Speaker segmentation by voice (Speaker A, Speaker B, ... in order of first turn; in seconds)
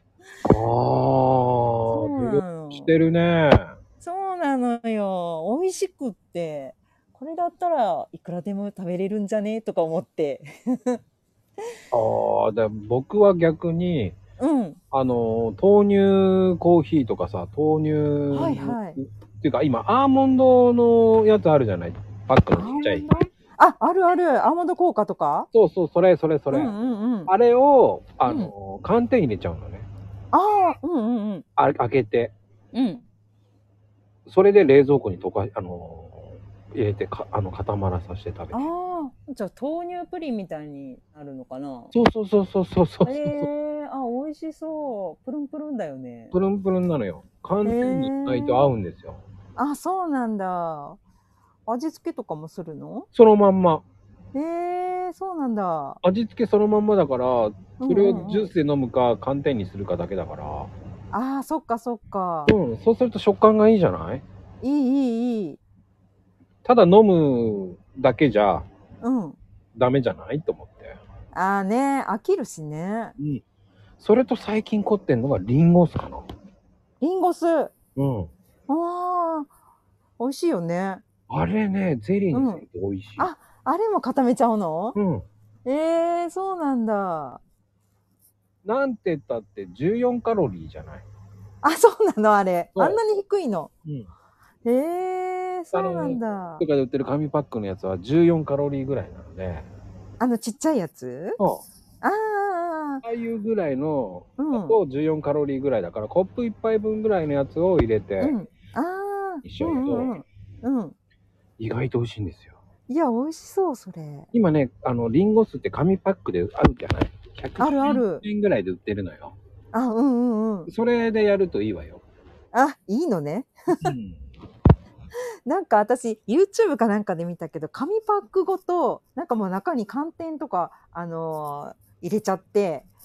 Speaker A: 0.4-3.7, 11.9-14.2, 14.9-23.1, 25.5-26.7, 27.3-29.9, 31.6-32.3, 34.2-38.6, 41.9-43.5, 46.3-49.2, 53.1-53.8, 56.0-60.7, 62.5-64.2, 66.6-68.7, 69.7-71.0, 74.0-76.3, 78.0-78.3, 81.3-83.3, 84.9-85.2, 88.6-91.1, 92.8-93.0, 95.7-99.7, 101.4-101.6, 103.0-108.3, 109.4-110.1, 111.6-112.6, 114.3-119.3, 120.7-122.0, 123.7-124.3
Speaker B: 1.9-2.9, 4.0-11.0, 14.4-14.8, 18.3-19.0, 22.5-25.5, 26.5-27.3, 28.2-28.5, 30.3-31.4, 32.7-33.0, 38.5-41.9, 43.0-46.3, 47.6-48.7, 49.5-51.0, 51.7-53.1, 54.3-56.0, 57.8-58.5, 61.1-62.5, 64.6-65.6, 69.0-69.4, 71.3-73.1, 77.0-77.7, 78.7-79.5, 80.2-81.0, 82.3-82.6, 83.2-85.0, 85.6-87.4, 91.6-93.7, 94.6-96.6, 100.2-101.4, 102.0-103.0, 104.4-104.8, 108.2-110.9, 112.9-114.3, 117.6-118.2, 119.7-120.7, 122.5-123.9, 125.5-132.9